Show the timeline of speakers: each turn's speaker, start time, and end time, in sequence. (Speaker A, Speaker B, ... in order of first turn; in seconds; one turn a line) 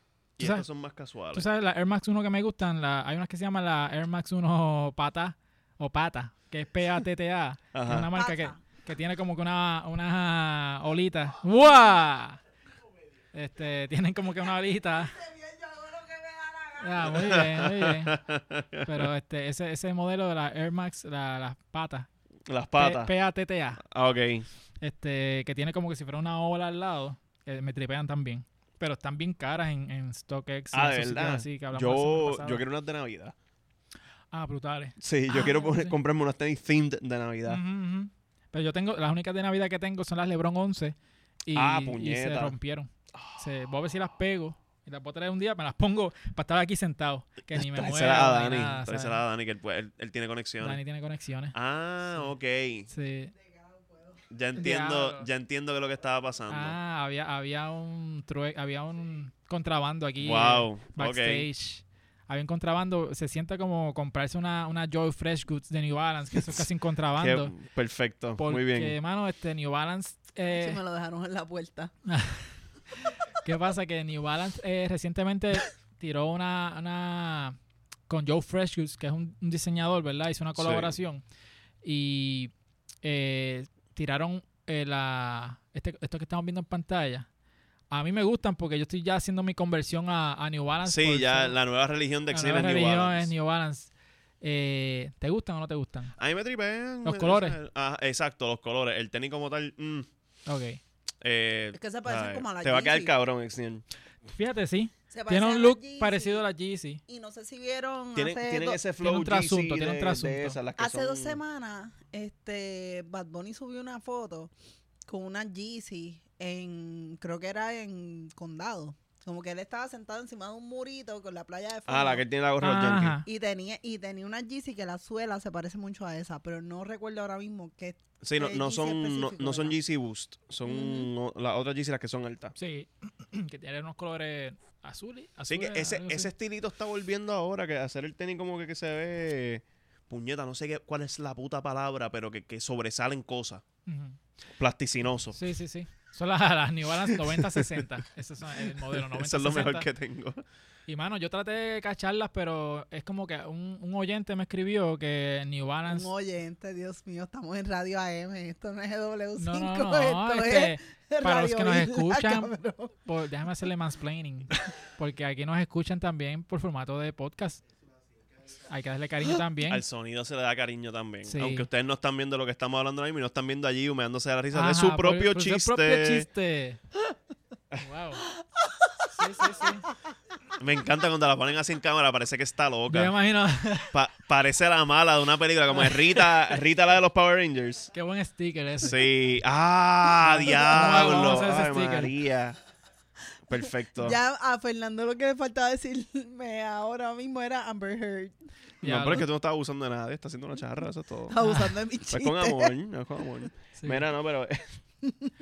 Speaker A: 0.4-1.5
Speaker B: 0.4-0.7
Speaker B: 1.3-12.4
Speaker A: 7.7-8.1
Speaker C: 8.1-8.6
Speaker B: 13.3-15.2
Speaker C: 15.1-17.2
Speaker B: 16.8-18.2
Speaker A: 17.1-19.1
Speaker B: 18.9-22.1
Speaker A: 22.5-23.1
Speaker B: 22.8-23.8
Speaker A: 23.8-24.5
Speaker B: 24.8-32.6
Speaker A: 30.7-33.4
Speaker B: 34.3-35.9
Speaker A: 35.0-37.6
Speaker B: 37.5-49.2
Speaker A: 41.5-42.5
Speaker A: 43.1-43.4
Speaker A: 47.5-50.8
Speaker B: 50.6-51.5
Speaker A: 51.5-52.9
Speaker B: 52.9-53.3
Speaker A: 54.3-56.8
Speaker B: 54.6-55.3
Speaker B: 56.5-67.5
Speaker A: 60.2-61.5
Speaker A: 66.4-66.7
Speaker A: 67.2-69.0
Speaker B: 68.4-70.8
Speaker C: 70.5-71.9
Speaker B: 72.1-77.6
Speaker B: 78.1-81.2
Speaker A: 80.6-80.9
Speaker B: 81.8-82.5
Speaker B: 83.0-87.3
Speaker B: 87.9-91.6
Speaker A: 90.8-93.3
Speaker B: 92.3-93.9
Speaker B: 94.4-96.2
Speaker A: 96.2-100.1
Speaker B: 97.0-97.6
Speaker B: 100.5-100.8
Speaker A: 101.2-103.8
Speaker C: 101.8-103.1
Speaker B: 104.3-107.0
Speaker C: 105.1-106.4
Speaker C: 107.1-108.8
Speaker A: 108.2-111.4
Speaker B: 109.0-110.6
Speaker C: 110.8-114.5
Speaker C: 115.1-122.2
Speaker A: 121.9-123.2
Speaker B: 122.6-123.2
Speaker C: 123.2-129.8
Speaker A: 128.2-132.6
Speaker C: 130.7-131.1
Speaker B: 132.6-136.3
Speaker A: 135.5-143.6
Speaker B: 143.9-144.2
Speaker A: 144.6-145.4
Speaker B: 145.3-149.9
Speaker A: 147.1-147.8
Speaker A: 148.7-150.4
Speaker B: 150.9-156.1
Speaker C: 155.9-162.9
Speaker B: 159.4-167.6
Speaker B: 168.7-169.8
Speaker A: 169.7-176.3
Speaker B: 171.2-171.7
Speaker B: 174.5-176.8
Speaker B: 177.8-178.3
Speaker B: 179.1-179.9
Speaker A: 180.6-183.1
Speaker B: 182.9-183.9
Speaker A: 183.9-187.9
Speaker B: 185.8-186.2
Speaker B: 187.9-189.0
Speaker A: 188.8-192.6
Speaker B: 190.2-192.1
Speaker A: 193.5-194.2
Speaker C: 194.0-198.3
Speaker B: 198.8-199.3
Speaker A: 198.8-201.4
Speaker C: 201.3-202.8
Speaker B: 201.4-201.8
Speaker A: 202.1-204.8
Speaker B: 203.8-204.0
Speaker C: 205.1-205.3